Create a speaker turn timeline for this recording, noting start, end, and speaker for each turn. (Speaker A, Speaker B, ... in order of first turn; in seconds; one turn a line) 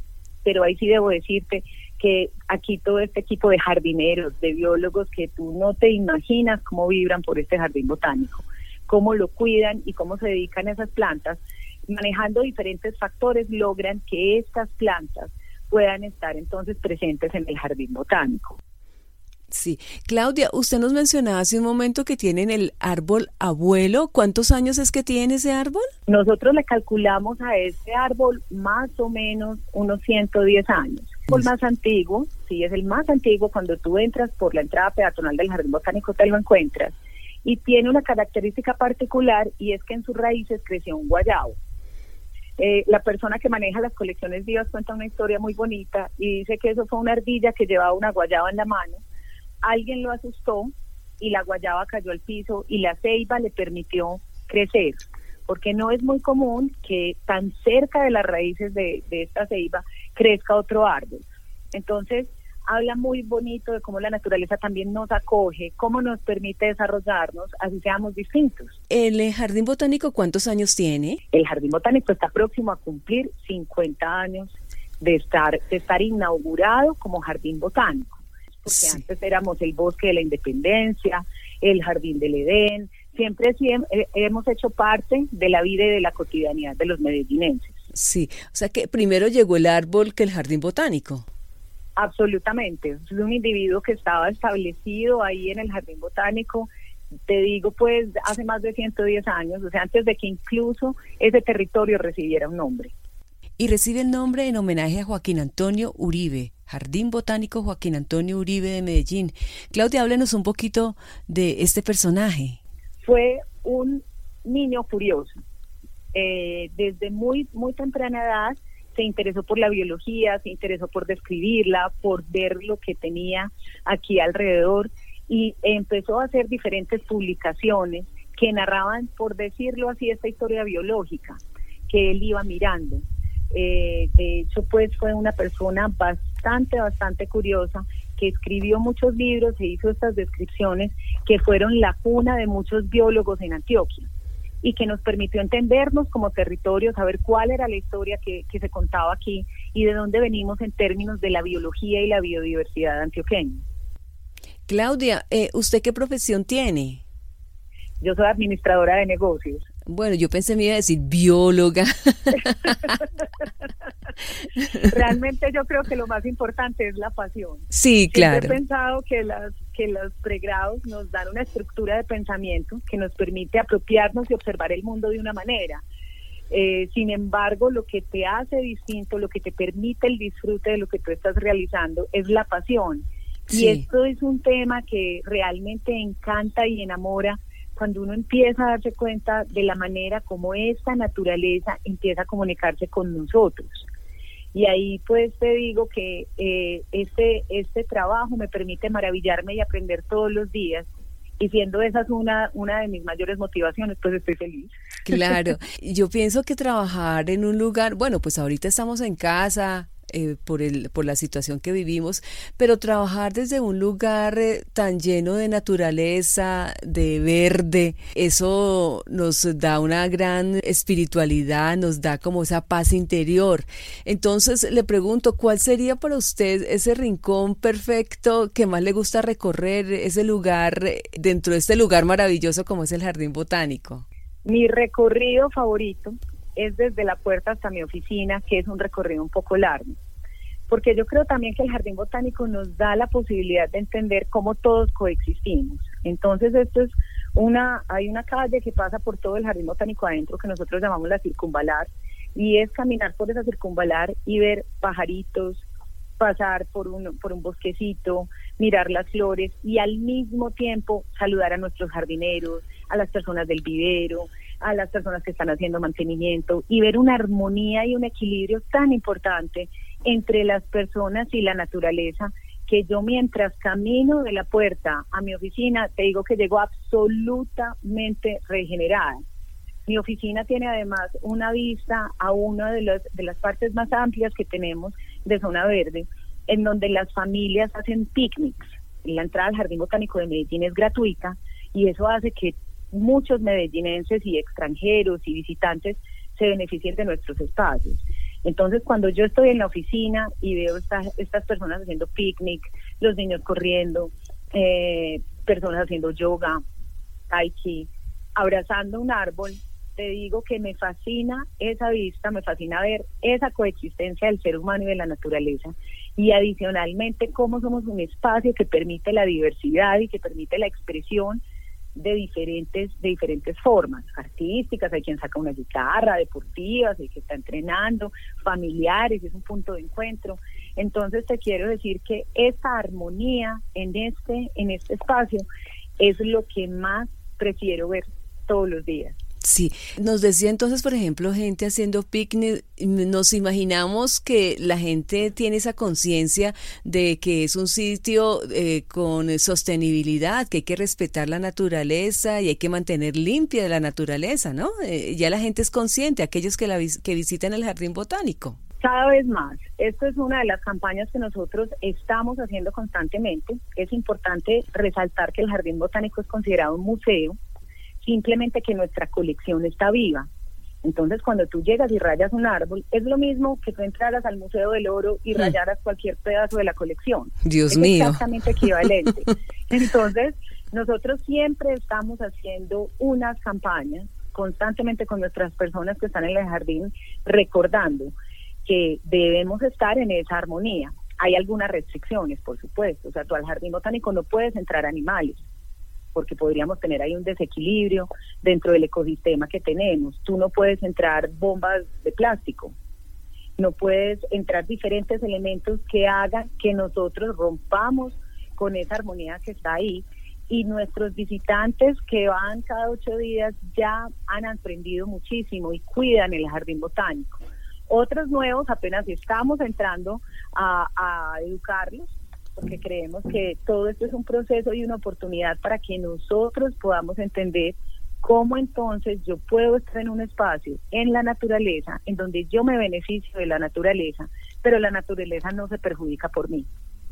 Speaker A: 0.4-18.6
Speaker B: 19.5-25.9
Speaker A: 26.1-41.6
Speaker A: 42.6-49.0
Speaker A: 49.6-68.8
Speaker B: 68.9-71.2
Speaker A: 71.3-87.8
Speaker B: 87.9-91.2
Speaker A: 92.0-96.7
Speaker A: 97.3-102.9
Speaker B: 103.6-112.6
Speaker A: 113.0-115.4
Speaker A: 116.1-144.1
Speaker A: 144.6-153.6
Speaker B: 154.7-157.0
Speaker A: 158.0-159.7
Speaker B: 159.8-163.0
Speaker A: 164.8-175.8
Speaker B: 167.7-168.6
Speaker A: 176.5-193.9
Speaker B: 183.5-183.8
Speaker A: 194.5-200.9
Speaker A: 201.4-205.2
Speaker B: 205.1-234.0
Speaker A: 234.4-240.0
Speaker A: 240.7-255.6
Speaker A: 256.2-279.2
Speaker A: 279.9-306.6
Speaker A: 307.3-321.4
Speaker A: 321.9-335.4
Speaker A: 336.0-339.2
Speaker B: 339.4-358.6
Speaker A: 358.8-367.4
Speaker A: 368.0-370.3
Speaker A: 370.8-388.1
Speaker B: 377.4-378.2
Speaker A: 388.6-395.4
Speaker A: 396.1-402.7
Speaker A: 403.6-436.7